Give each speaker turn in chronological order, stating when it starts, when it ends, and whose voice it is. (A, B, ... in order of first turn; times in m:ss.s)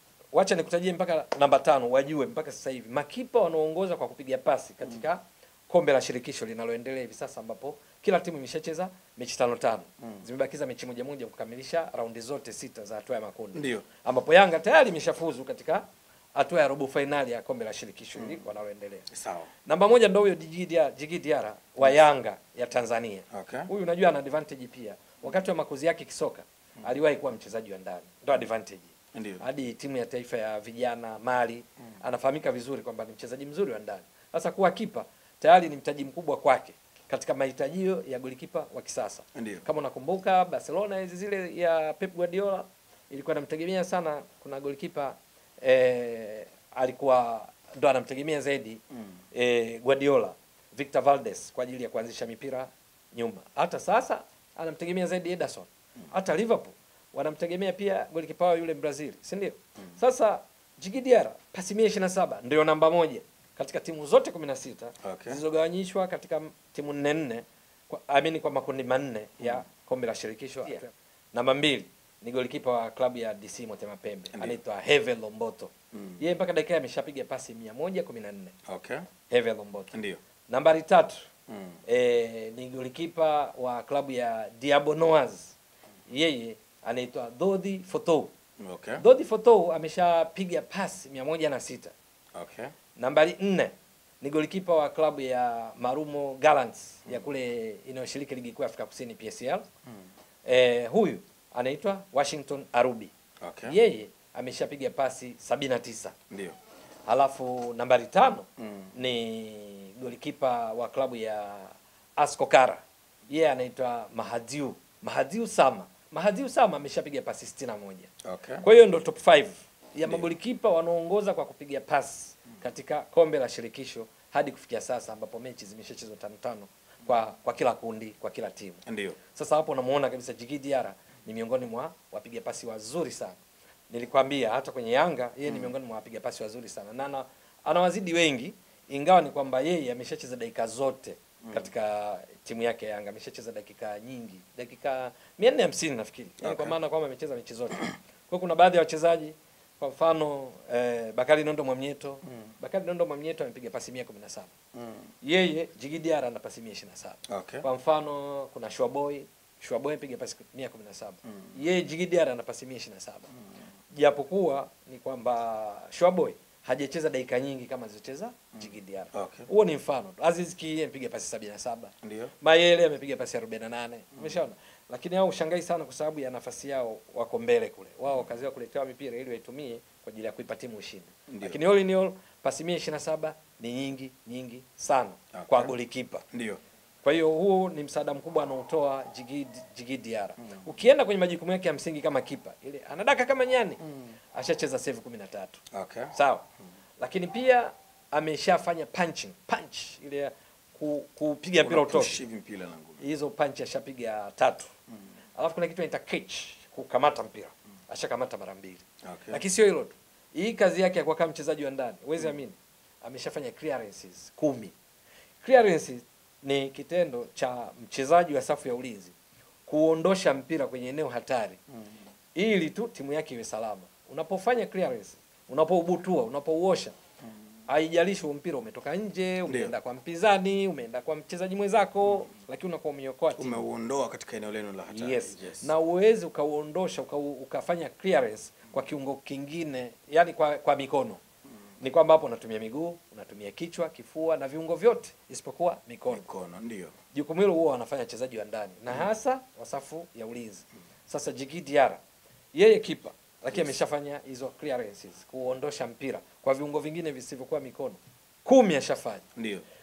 0:00.3-0:15.8 A
0:13.6-0:13.8 B
0:16.3-0:19.1 A
0:19.1-0:19.5 B
0:19.6-0:48.8 A
0:29.1-0:29.4 B
0:49.3-1:18.6 A
1:05.0-1:05.4 B
1:18.8-1:19.0 B
1:19.3-1:19.9 A
1:20.5-1:21.3 A
1:21.9-1:25.5 A
1:26.1-1:28.3 A
1:29.0-1:31.9 A
1:32.4-1:32.7 B
1:33.0-1:39.6 A
1:40.4-1:43.1 A
1:43.7-1:46.2 A
1:47.1-1:58.1 A
1:58.2-1:58.6 B
1:58.6-2:13.4 A
2:08.9-2:09.2 B
2:13.9-2:34.5 A
2:26.4-2:26.7 B
2:34.8-2:35.1 B
2:35.2-2:43.3 A
2:43.9-3:06.2 A
2:49.1-2:49.5 B
2:52.0-2:52.3 B
3:05.3-3:05.7 B
3:06.3-3:06.6 B
3:07.0-3:13.8 A
3:14.3-3:15.6 A
3:15.7-3:16.1 B
3:16.1-3:16.4 A
3:17.0-3:22.2 A
3:21.6-3:23.0 B
3:23.0-3:24.7 A
3:25.4-3:34.7 A
3:29.1-3:29.4 B
3:35.4-3:39.1 A
3:39.7-3:41.6 A
3:42.4-3:47.0 A
3:47.7-3:53.6 A
3:53.4-3:55.7 B
3:54.9-4:01.2 A
4:01.8-4:06.2 A
4:06.2-4:06.9 B
4:07.1-4:12.0 A
4:12.5-4:19.2 A
4:19.4-4:19.6 B